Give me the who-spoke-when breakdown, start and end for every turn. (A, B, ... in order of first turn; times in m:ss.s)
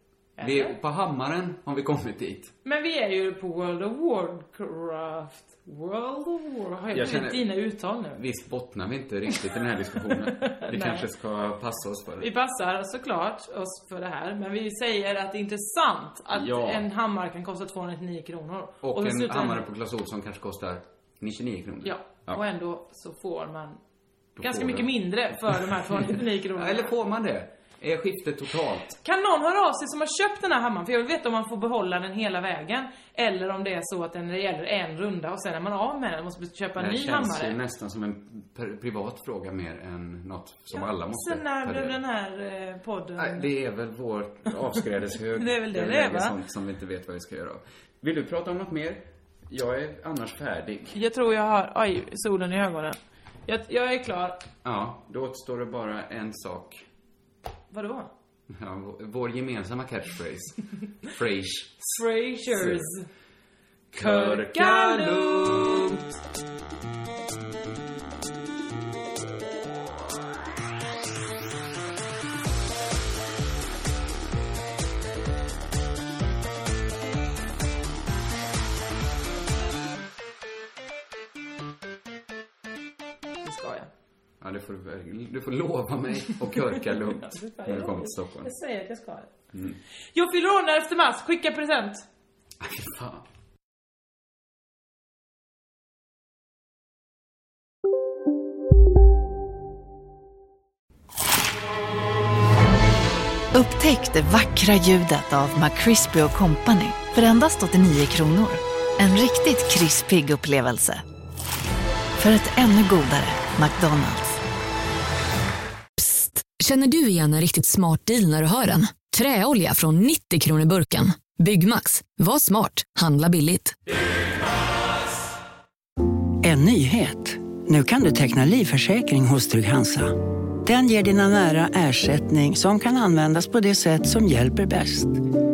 0:00.4-0:00.8 A
0:00.4-0:02.5 B
0:02.6-0:08.2 A
0:06.9-0:07.5 B
0:08.1-0:12.3 B
0:10.3-0:11.1 A
0:12.2-0:19.6 A
0:16.3-0:16.9 B
0:18.8-0:22.4 B
0:21.8-0:23.8 A
0:24.4-0:29.0 B
0:24.4-0:26.9 A
0:29.0-0:37.6 A
0:36.8-0:42.0 B
0:40.7-0:43.5 A
0:43.2-0:51.0 B
0:45.4-0:46.4 A
0:50.9-0:54.4 A
0:54.6-0:56.9 B
0:57.7-0:58.1 A
0:58.5-1:02.0 B
1:01.9-1:03.0 A
1:02.5-1:02.9 B
1:03.9-1:06.1 B
1:04.0-1:06.0 A
1:23.4-1:23.9 A
1:24.4-1:28.5 B
1:27.2-1:29.3 A
1:29.5-1:29.8 B
1:30.1-1:32.0 A
1:32.6-1:33.2 B
1:43.5-1:51.0 C
1:52.2-1:54.4 C
1:56.0-2:03.8 D
2:06.4-2:15.2 E